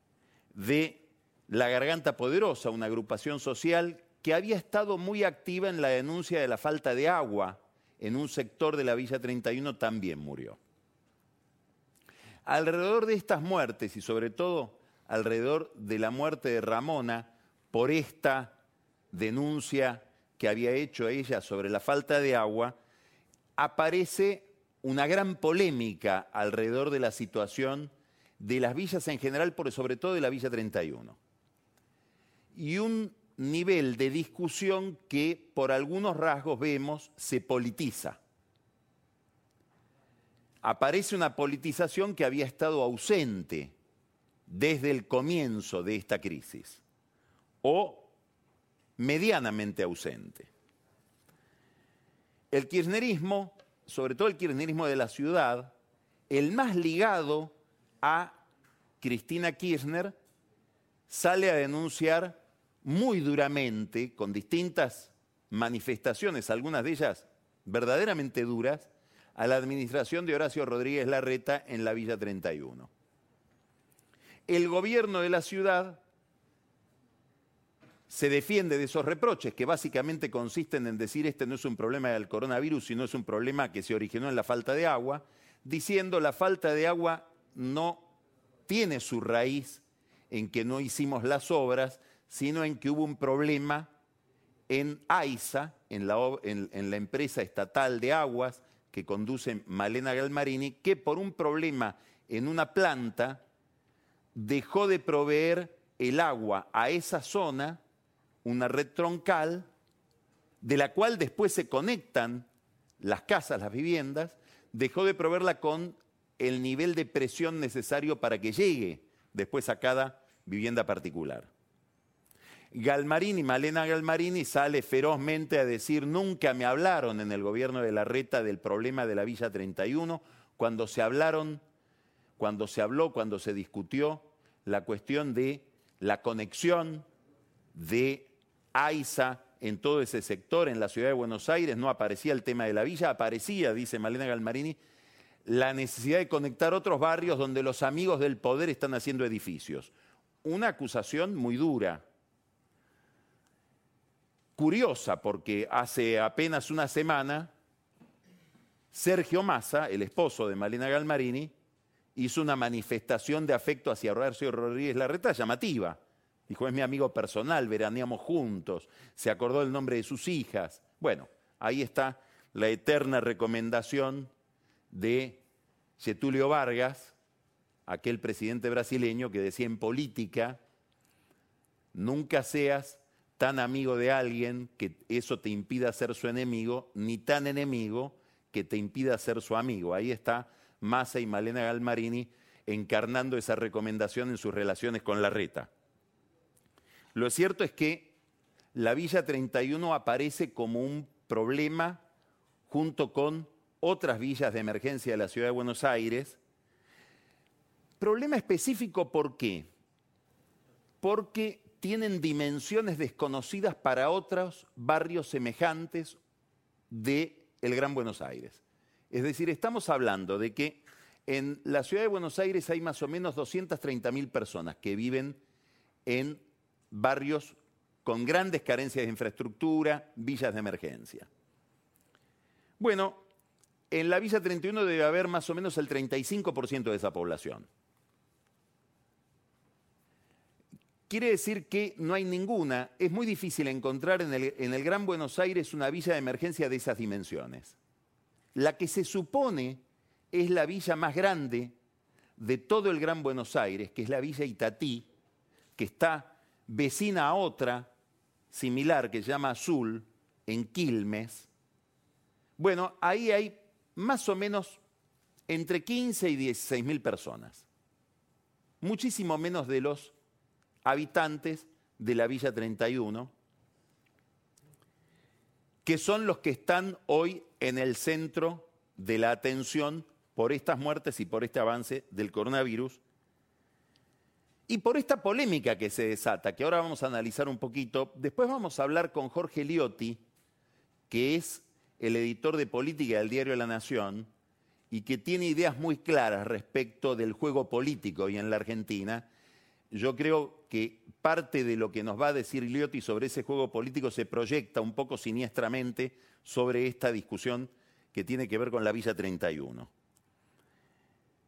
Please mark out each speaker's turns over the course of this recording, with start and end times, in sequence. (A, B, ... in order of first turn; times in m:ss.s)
0:00.5-0:10.6 A
0:12.5-0:18.6 A
0:19.1-0:22.8 A
0:23.6-0:31.2 A
0:32.5-0:38.2 A
0:40.6-0:43.8 A
0:44.5-0:46.8 A
0:47.6-0:48.1 A
0:49.0-0:50.5 A
0:52.5-0:55.7 A
0:56.3-0:58.4 A
0:59.0-1:00.2 A
1:01.1-1:12.9 A
1:14.5-1:16.0 A
1:18.1-1:28.1 A
1:28.7-1:33.9 A
1:34.7-1:43.4 A
1:44.4-1:47.8 A
1:48.4-1:49.7 A
1:50.6-1:52.5 A
1:53.0-2:01.5 A
2:02.7-2:11.6 A
2:12.4-2:17.1 A
2:17.7-2:24.8 A
2:25.4-2:29.9 A
2:30.4-2:32.0 A
2:34.6-2:37.5 A
2:38.9-2:41.5 A
2:42.2-2:54.3 A
2:54.9-2:55.4 A
2:56.0-2:57.2 A
2:57.9-3:00.6 A
3:01.9-3:15.7 A
3:17.2-3:18.1 A
3:18.7-3:22.0 A
3:22.7-3:26.4 A
3:28.0-3:29.7 A
3:31.0-3:36.2 A
3:36.9-3:45.4 A
3:46.1-3:51.3 A
3:52.8-3:53.2 A
3:53.9-3:57.7 A
4:01.1-4:07.8 A
4:08.6-4:09.8 A
4:10.3-4:11.7 A
4:12.4-4:15.1 A
4:15.8-4:17.9 A
4:18.5-4:21.5 A
4:22.6-4:24.8 A
4:25.5-4:27.7 A
4:28.8-4:30.1 A
4:30.8-4:33.3 A
4:35.8-4:43.0 A
4:44.7-4:50.2 A
4:51.1-4:54.3 A
4:54.9-4:59.3 A
4:59.9-5:09.9 A